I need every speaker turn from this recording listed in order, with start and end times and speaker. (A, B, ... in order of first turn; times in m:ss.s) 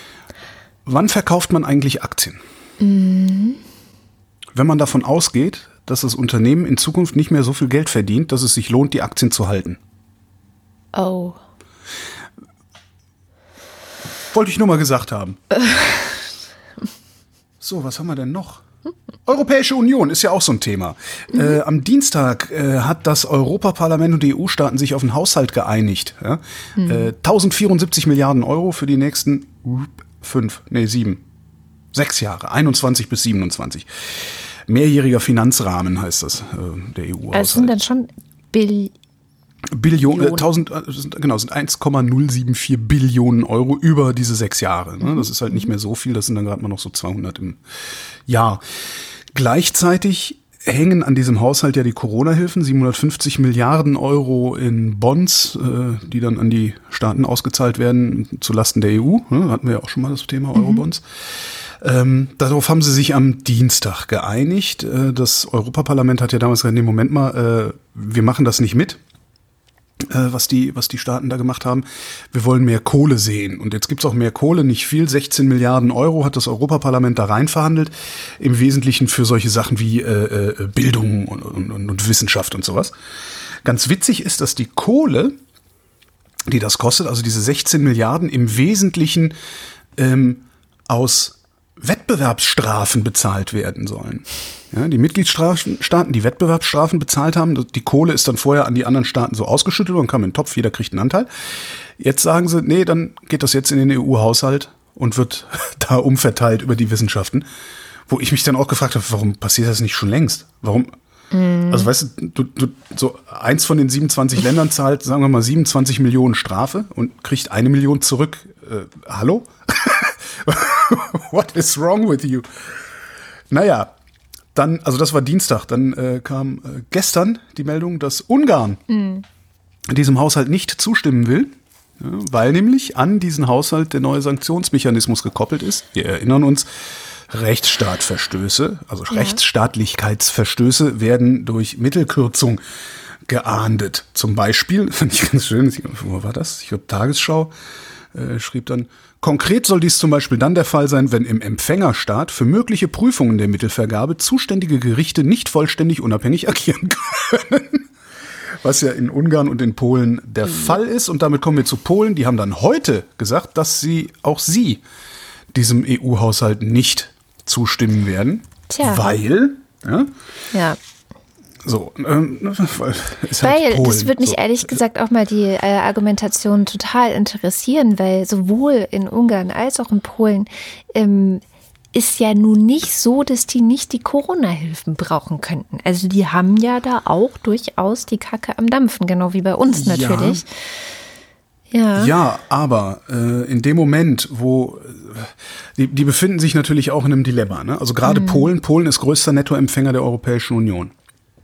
0:00.9-0:02.4 A
0:02.8-0:03.6 B
0:04.5-0:09.8 A
0:11.0-0:11.4 B
0:14.3-0:15.4 A
0:15.7-0:16.0 B
0:17.6-0:18.6 A
0:19.3-0:31.2 A
0:26.8-0:27.1 B
0:31.9-0:37.7 A
0:37.3-0:38.9 B
0:39.7-0:47.6 A
0:40.1-0:40.5 B
0:48.3-0:48.6 A
0:49.3-1:01.0 A
1:00.6-1:00.8 B
1:01.8-1:09.0 A
1:10.0-1:22.9 A
1:23.6-1:25.4 A
1:26.5-1:29.4 A
1:30.0-1:41.3 A
1:42.0-1:47.5 A
1:48.1-1:50.9 A
1:51.3-1:51.9 B
1:51.7-2:02.5 A
2:03.5-2:03.9 A
2:04.6-2:08.8 A
2:08.9-2:09.2 B
2:09.9-2:16.7 A
2:17.3-2:22.6 A
2:19.1-2:19.4 B
2:23.3-2:27.5 A
2:28.1-2:37.9 A
2:38.6-2:44.8 A
2:45.5-2:50.1 A
2:48.7-2:49.1 B
2:50.5-2:50.8 B
2:51.6-2:54.8 A
2:53.4-3:01.4 B
3:01.9-3:10.5 B
3:09.7-3:10.4 A
3:11.7-3:12.1 B
3:12.0-3:20.9 A
3:18.0-3:18.5 B